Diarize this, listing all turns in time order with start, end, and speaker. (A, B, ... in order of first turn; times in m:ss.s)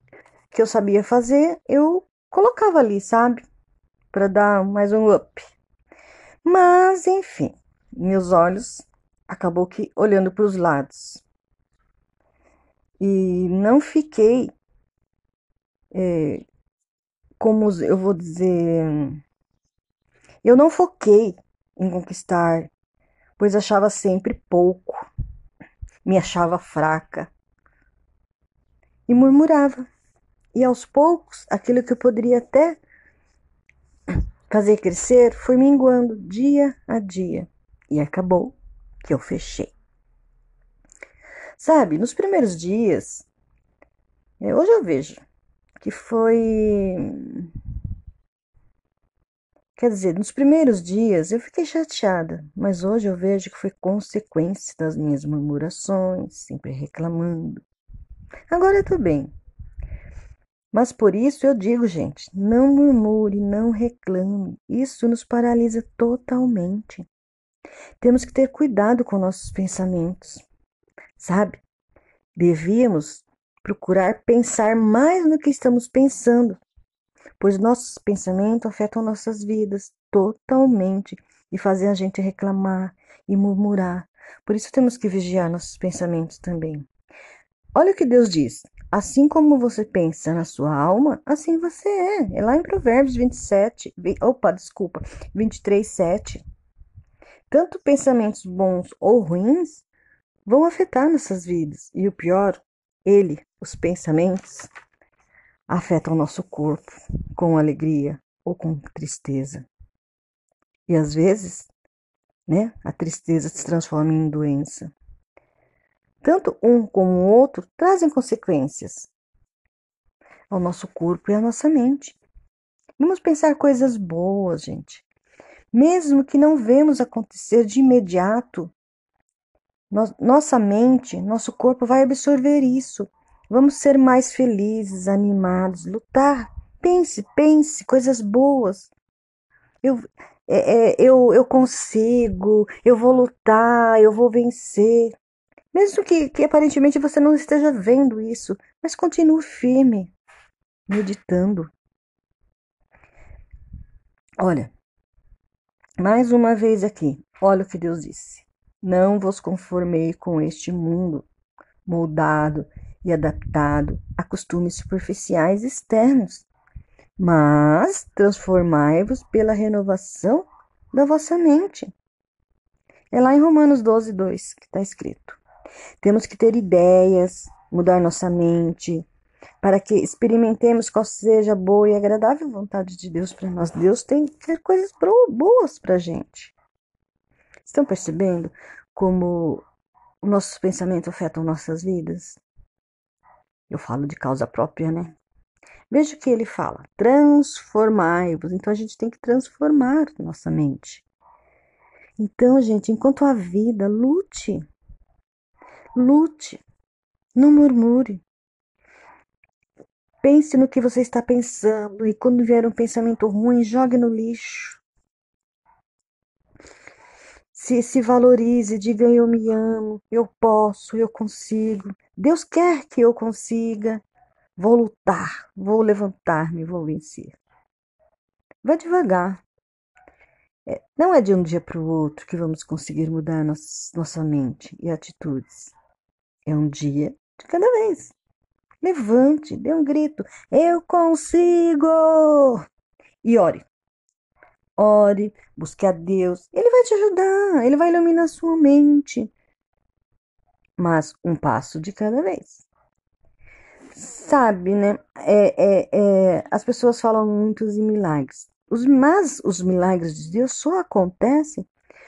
0:00.5-0:03.4 A
0:04.1-0:05.4 A
0:06.4-0:11.2 A
0:13.0-0:14.5 A
0:15.9-0:16.4 A
0:17.4-0:19.2 A
0:20.4-0:22.7 A
0:23.4-0:25.1 A
0:26.0-0:27.3 A
0:29.1-0:29.8 A
0:30.5-0:32.8 A
0:34.5-0:39.7 A
0:41.6-0:43.3 A
0:44.4-0:45.2 A
0:45.8-0:47.5 A
0:49.8-0:57.6 A
0:58.5-0:59.3 A
1:00.7-1:07.1 A
1:08.0-1:10.4 A
1:11.2-1:11.6 A
1:12.4-1:16.6 A
1:17.4-1:26.9 A
1:27.7-1:36.4 A
1:37.5-1:39.8 A
1:40.4-1:44.7 A
1:45.7-1:49.7 A
1:50.9-1:51.7 A
1:52.5-1:54.9 A
1:56.2-1:59.1 A
2:00.5-2:02.2 A
2:03.0-2:05.0 A
2:05.7-2:08.7 A
2:09.9-2:18.9 A
2:19.8-2:25.1 A
2:25.7-2:30.1 A
2:30.9-2:31.7 A
2:34.4-2:34.7 A
2:36.0-2:41.2 A
2:41.8-2:46.5 A
2:47.2-2:51.9 A
2:53.1-2:55.4 A
2:56.0-2:59.1 A
2:59.6-3:06.5 A
3:07.6-3:09.6 A
3:10.2-3:12.4 A
3:13.7-3:15.2 A
3:15.9-3:21.0 A
3:22.2-3:24.6 A
3:26.0-3:26.6 A
3:27.4-3:28.2 A
3:30.2-3:34.8 A
3:37.5-3:44.0 A
3:44.6-3:47.4 A
3:48.6-3:49.4 A
3:50.6-3:55.7 A
3:56.4-3:58.1 A
3:58.8-4:02.6 A
4:03.2-4:03.6 A
4:04.8-4:09.3 A
4:10.8-4:12.7 A
4:13.9-4:21.7 A